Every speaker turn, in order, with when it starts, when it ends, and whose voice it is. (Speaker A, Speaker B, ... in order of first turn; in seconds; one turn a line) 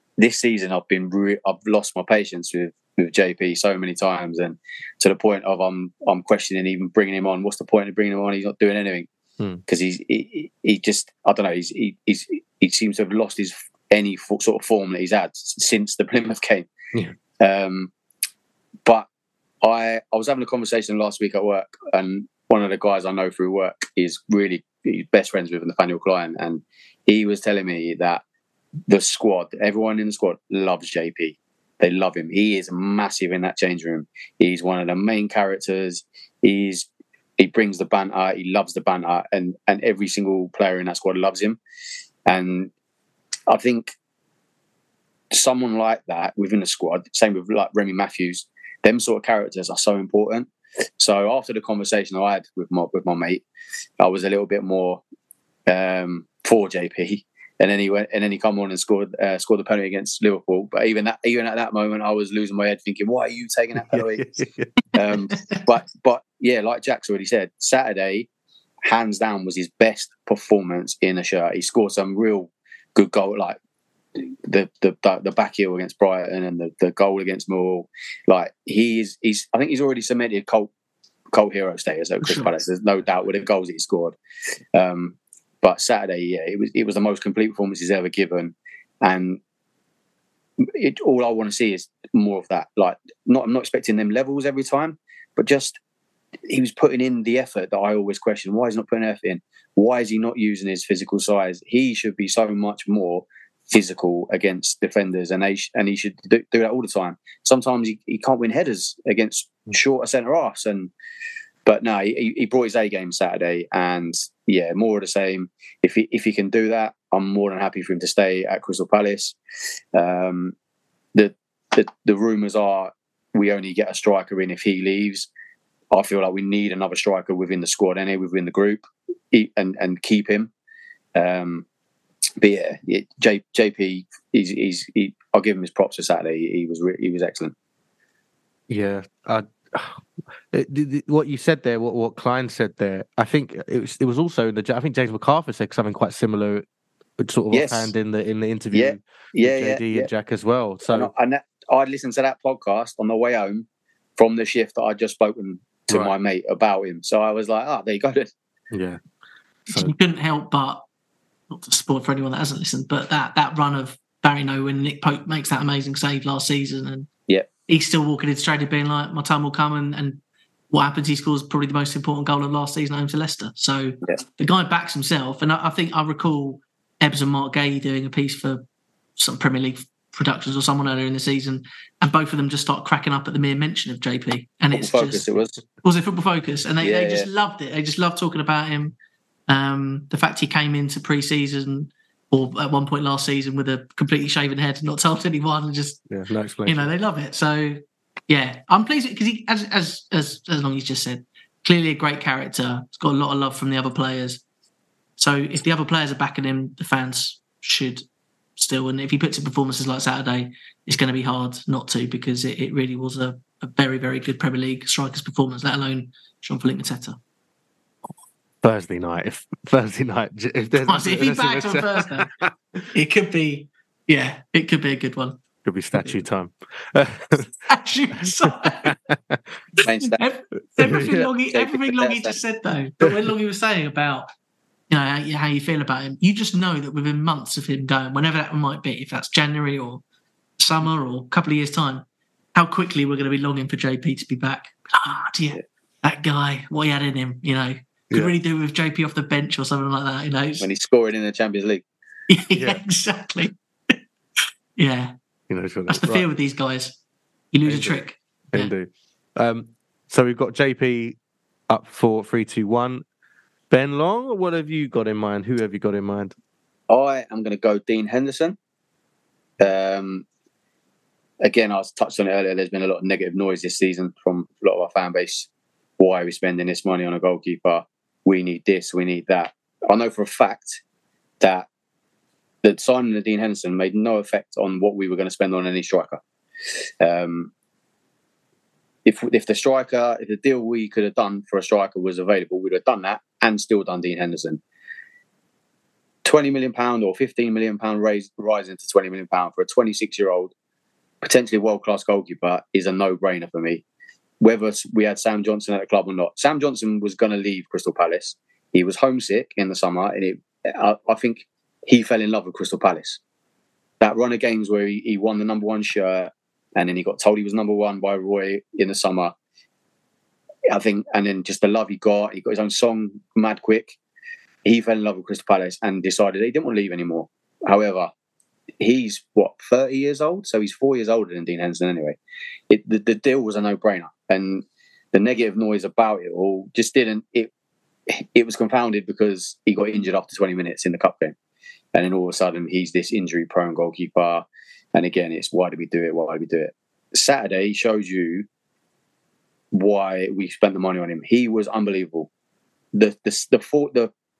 Speaker A: 0.2-9.1
Speaker A: 9.7-16.7
Speaker A: 17.4-17.9
Speaker A: 19.6-28.2
Speaker A: 28.9-36.9
Speaker A: 37.4-41.6
Speaker A: 42.3-42.7
Speaker A: 43.5-43.9
Speaker A: 45.3-50.5
Speaker A: 51.0-53.4
Speaker A: 54.0-55.0
Speaker A: 55.7-64.4
Speaker B: 63.9-64.7
Speaker A: 64.9-68.3
Speaker A: 68.8-73.6
Speaker A: 74.2-80.7
Speaker A: 81.3-84.2
Speaker C: 82.2-82.5
Speaker A: 84.7-89.4
Speaker A: 90.6-95.8
Speaker A: 96.5-110.9
Speaker A: 111.7-119.3
Speaker A: 119.9-120.5
Speaker A: 121.1-125.3
Speaker A: 125.9-130.5
Speaker A: 131.1-131.6
Speaker A: 132.4-137.5
Speaker B: 138.7-140.0
Speaker B: 140.5-146.6
Speaker B: 147.2-151.1
Speaker A: 147.5-147.9
Speaker A: 148.7-150.1
Speaker A: 150.9-153.7
Speaker A: 154.2-158.3
Speaker B: 155.9-156.1
Speaker B: 158.7-159.0
Speaker B: 159.7-159.9
Speaker C: 159.7-160.8
Speaker C: 161.5-167.1
Speaker C: 167.7-170.2
Speaker C: 170.7-178.6
Speaker C: 179.2-185.2
Speaker A: 184.7-185.6
Speaker C: 185.8-188.9
Speaker A: 186.8-187.3
Speaker C: 189.5-196.0
Speaker B: 196.1-196.9
Speaker C: 196.7-204.4
Speaker C: 205.2-208.0
Speaker C: 208.6-217.2
Speaker B: 218.6-222.5
Speaker C: 220.8-222.3
Speaker C: 222.9-225.4
Speaker B: 225.6-227.5
Speaker C: 226.0-226.2
Speaker C: 227.7-228.9
Speaker B: 228.3-229.4
Speaker C: 229.8-234.3
Speaker A: 229.8-230.2
Speaker B: 230.8-231.3
Speaker A: 231.5-232.4
Speaker C: 234.9-240.0
Speaker C: 240.6-242.0
Speaker C: 242.5-250.7
Speaker A: 250.6-251.8
Speaker C: 252.3-255.1
Speaker B: 252.6-252.8
Speaker B: 255.5-256.2
Speaker C: 255.9-256.9
Speaker C: 257.5-258.7
Speaker B: 257.7-258.0
Speaker B: 258.5-261.2
Speaker B: 261.7-263.0
Speaker B: 263.7-266.3
Speaker A: 266.9-268.6
Speaker A: 269.6-270.2
Speaker A: 271.4-275.5
Speaker A: 276.0-280.8
Speaker A: 281.4-281.7
Speaker A: 282.6-286.2
Speaker A: 287.0-287.5
Speaker A: 289.0-294.6
Speaker A: 296.2-300.5
Speaker A: 301.2-303.8
Speaker A: 304.4-313.2
Speaker A: 314.0-319.3
Speaker A: 320.7-323.9
Speaker A: 324.6-328.1
Speaker A: 328.8-332.2
Speaker A: 332.7-337.5
Speaker A: 338.1-341.3
Speaker A: 341.9-348.4
Speaker A: 349.7-352.3
Speaker A: 352.9-354.1